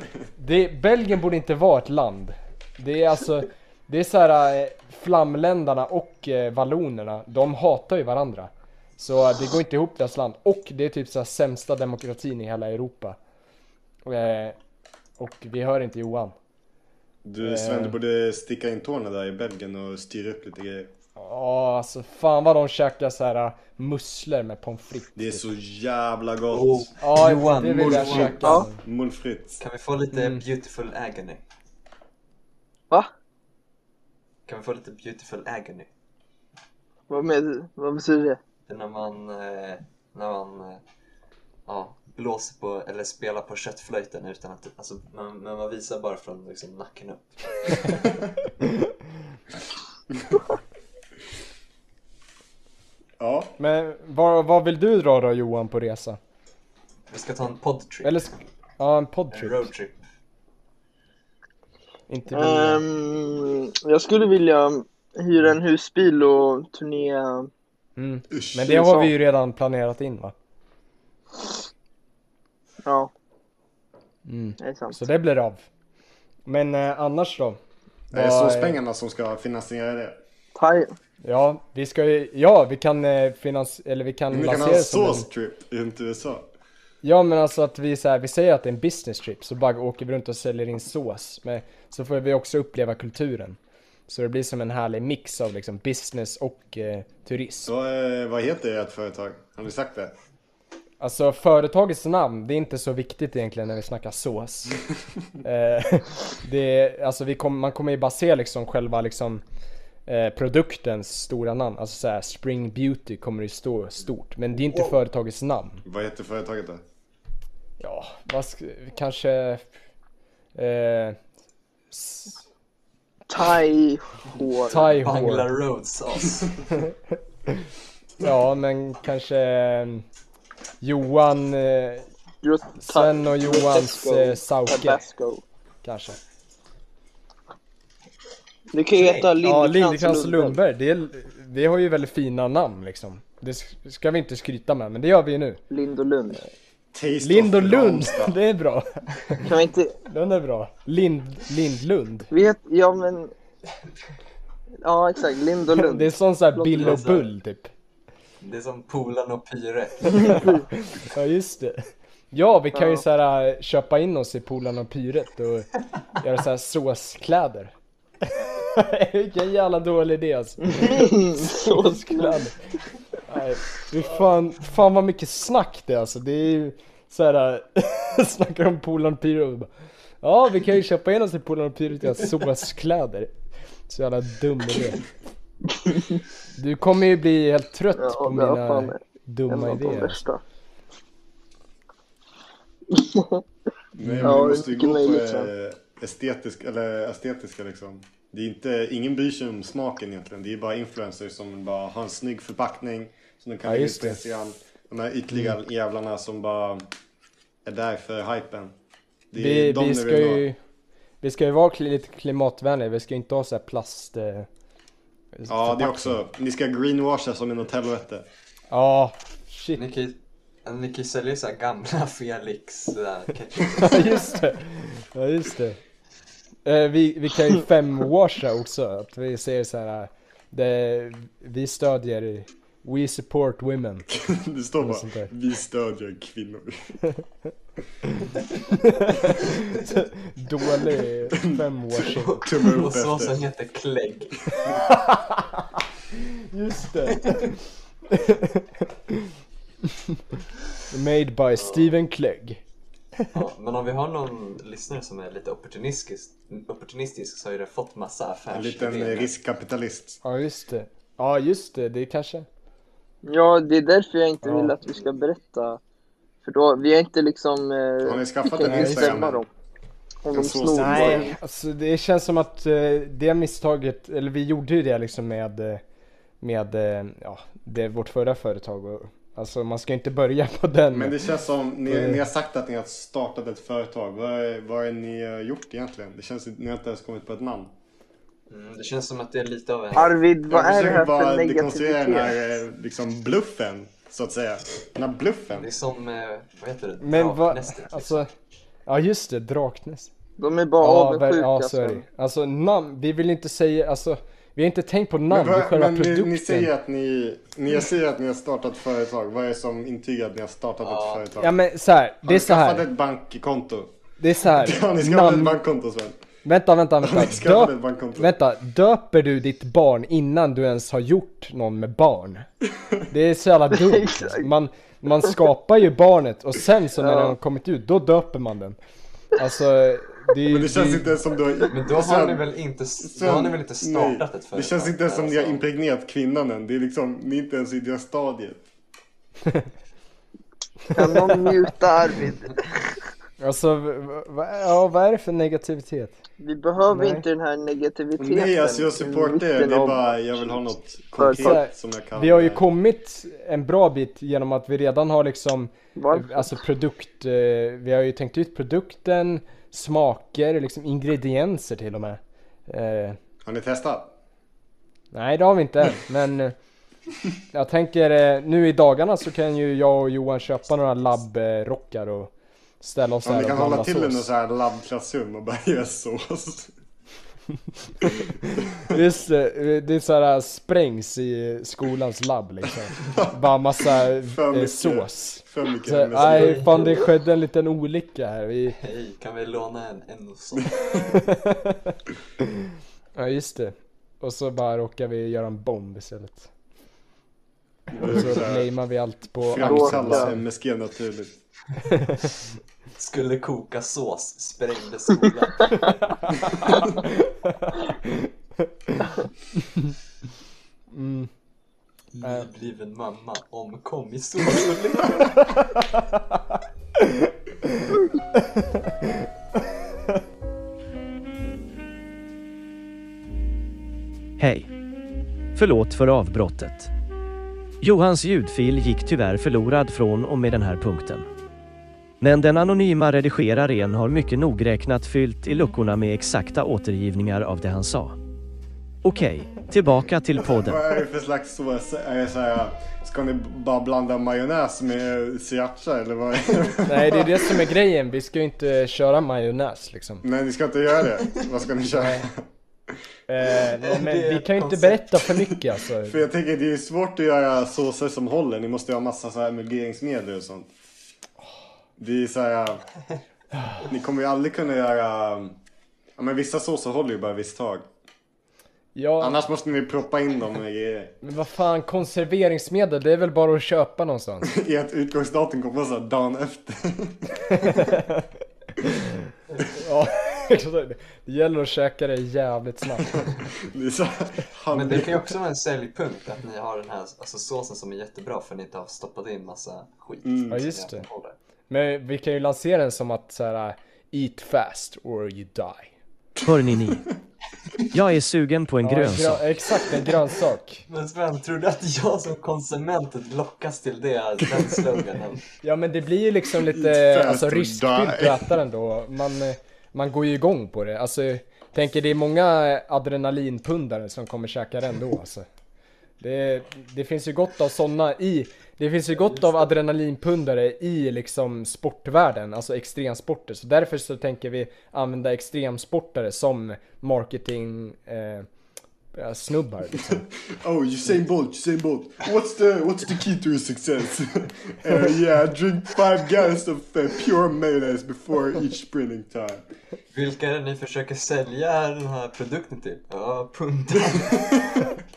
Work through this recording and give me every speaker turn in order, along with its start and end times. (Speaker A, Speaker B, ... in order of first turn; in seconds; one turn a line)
Speaker A: 0.4-13.2
Speaker A: 14.1-14.6
Speaker A: 15.2-16.4
Speaker B: 17.2-20.9
Speaker A: 17.4-18.0
Speaker A: 21.2-25.5
Speaker B: 25.2-26.9
Speaker C: 26.5-28.7
Speaker A: 27.0-28.8
Speaker B: 27.6-29.6
Speaker C: 29.6-31.4
Speaker A: 30.1-30.4
Speaker C: 34.5-35.9
Speaker D: 37.1-38.4
Speaker C: 38.7-40.8
Speaker C: 41.7-48.1
Speaker B: 53.2-53.5
Speaker A: 53.6-56.2
Speaker C: 57.1-58.2
Speaker A: 58.0-59.7
Speaker C: 59.3-60.0
Speaker A: 62.1-62.8
Speaker D: 62.3-67.5
Speaker A: 68.0-70.3
Speaker B: 68.3-69.1
Speaker D: 72.8-73.1
Speaker A: 74.3-75.7
Speaker D: 74.6-75.0
Speaker A: 76.5-77.6
Speaker A: 78.1-78.8
Speaker B: 78.1-80.2
Speaker D: 80.6-80.9
Speaker A: 81.2-85.3
Speaker B: 84.3-86.5
Speaker A: 87.0-97.7
Speaker B: 97.7-100.1
Speaker A: 101.0-104.8
Speaker A: 105.4-109.4
Speaker A: 110.1-115.8
Speaker B: 115.8-116.8
Speaker A: 117.8-119.7
Speaker A: 120.5-121.2
Speaker A: 121.9-122.4
Speaker D: 123.3-124.8
Speaker A: 124.7-125.5
Speaker C: 124.7-126.7
Speaker A: 128.2-130.1
Speaker A: 130.8-132.1
Speaker D: 132.4-135.4
Speaker A: 132.8-135.0
Speaker A: 135.8-136.2
Speaker D: 138.7-140.6
Speaker C: 138.9-139.3
Speaker A: 139.4-145.6
Speaker D: 145.7-146.4
Speaker B: 146.9-148.4
Speaker A: 147.2-149.5
Speaker D: 149.4-150.0
Speaker A: 150.1-152.3
Speaker D: 152.3-153.3
Speaker D: 154.8-157.0
Speaker A: 155.7-157.7
Speaker C: 156.7-157.3
Speaker C: 158.4-160.7
Speaker A: 160.2-167.7
Speaker D: 162.7-163.0
Speaker A: 168.2-172.5
Speaker D: 170.7-172.4
Speaker A: 173.3-179.7
Speaker A: 180.2-183.3
Speaker A: 183.9-185.0
Speaker D: 185.9-186.2
Speaker A: 186.6-190.2
Speaker D: 188.0-190.4
Speaker D: 192.9-193.4
Speaker B: 194.0-206.9
Speaker A: 194.0-194.4
Speaker D: 194.2-195.5
Speaker A: 203.7-204.2
Speaker B: 207.7-208.7
Speaker B: 209.3-210.4
Speaker A: 209.4-210.6
Speaker A: 211.2-214.5
Speaker A: 215.4-216.2
Speaker B: 215.5-218.3
Speaker A: 218.7-219.8
Speaker C: 219.8-224.3
Speaker A: 223.8-225.8
Speaker A: 226.7-234.1
Speaker B: 234.1-237.0
Speaker A: 234.8-235.3
Speaker A: 238.1-242.4
Speaker C: 242.1-244.5
Speaker B: 242.4-243.4
Speaker A: 244.8-247.6
Speaker C: 247.1-247.5
Speaker A: 248.1-249.3
Speaker A: 249.9-250.2
Speaker A: 250.9-252.6
Speaker C: 251.6-252.0
Speaker C: 253.3-259.3
Speaker B: 258.5-260.2
Speaker A: 260.2-262.5
Speaker D: 263.2-265.8
Speaker A: 264.4-264.8
Speaker D: 266.4-269.5
Speaker B: 268.0-269.4
Speaker A: 268.6-269.2
Speaker D: 270.2-271.4
Speaker B: 270.3-271.3
Speaker A: 270.8-275.8
Speaker A: 276.4-281.2
Speaker B: 280.9-287.7
Speaker A: 281.9-282.2
Speaker C: 288.5-290.2
Speaker D: 289.9-292.4
Speaker B: 290.5-295.7
Speaker C: 295.6-298.2
Speaker A: 297.0-298.3
Speaker A: 298.9-300.1
Speaker D: 300.4-302.0
Speaker A: 300.8-306.7
Speaker B: 305.3-311.6
Speaker C: 310.8-311.3
Speaker A: 311.4-312.9
Speaker B: 312.2-313.9
Speaker A: 314.2-315.6
Speaker B: 314.5-316.2
Speaker A: 316.4-322.5
Speaker B: 317.0-318.3
Speaker A: 323.1-328.8
Speaker D: 323.7-324.5
Speaker D: 327.0-327.3
Speaker A: 329.4-331.1
Speaker B: 330.5-332.5
Speaker C: 331.7-335.6
Speaker B: 333.0-338.6
Speaker D: 340.9-342.7
Speaker A: 343.4-346.2
Speaker D: 346.4-351.6
Speaker A: 346.9-347.2
Speaker B: 348.2-352.7
Speaker A: 351.3-363.2
Speaker D: 356.0-356.5
Speaker B: 363.4-364.1
Speaker A: 365.1-366.5
Speaker A: 367.5-374.3
Speaker B: 373.2-376.7
Speaker A: 378.0-388.8
Speaker B: 384.2-386.9
Speaker C: 386.1-387.1
Speaker C: 388.7-391.2
Speaker A: 391.1-392.0
Speaker A: 392.6-396.5
Speaker B: 397.9-398.7
Speaker A: 397.9-400.4
Speaker B: 399.4-401.4
Speaker D: 399.6-400.3
Speaker A: 401.9-402.3
Speaker C: 403.0-406.9
Speaker A: 406.2-409.9
Speaker A: 410.9-411.3
Speaker C: 412.1-415.4
Speaker A: 412.2-412.5
Speaker A: 415.6-419.3
Speaker E: 424.4-424.7
Speaker E: 425.6-426.9
Speaker E: 427.8-431.3
Speaker E: 432.2-438.1
Speaker E: 439.0-440.8
Speaker B: 440.4-447.6
Speaker A: 446.9-450.2
Speaker B: 450.2-452.4
Speaker A: 451.9-452.2
Speaker A: 453.3-456.2
Speaker C: 453.8-455.2
Speaker B: 456.1-460.7
Speaker B: 462.0-462.8
Speaker A: 463.6-463.8
Speaker B: 463.9-465.6
Speaker B: 466.2-467.9
Speaker A: 468.9-469.4
Speaker B: 469.2-471.2
Speaker A: 471.2-474.5
Speaker B: 474.4-477.5
Speaker A: 477.6-478.3
Speaker A: 478.8-479.2
Speaker A: 479.7-483.2
Speaker B: 483.1-485.3
Speaker C: 484.7-491.4
Speaker A: 490.5-491.1
Speaker A: 491.7-495.9
Speaker E: 496.4-497.1
Speaker E: 497.9-499.4
Speaker A: 498.8-500.9
Speaker C: 500.9-505.4
Speaker A: 505.6-515.5
Speaker B: 506.5-508.5
Speaker A: 516.2-528.5
Speaker C: 519.2-519.7
Speaker A: 529.1-530.3
Speaker B: 530.1-539.6
Speaker C: 540.1-544.7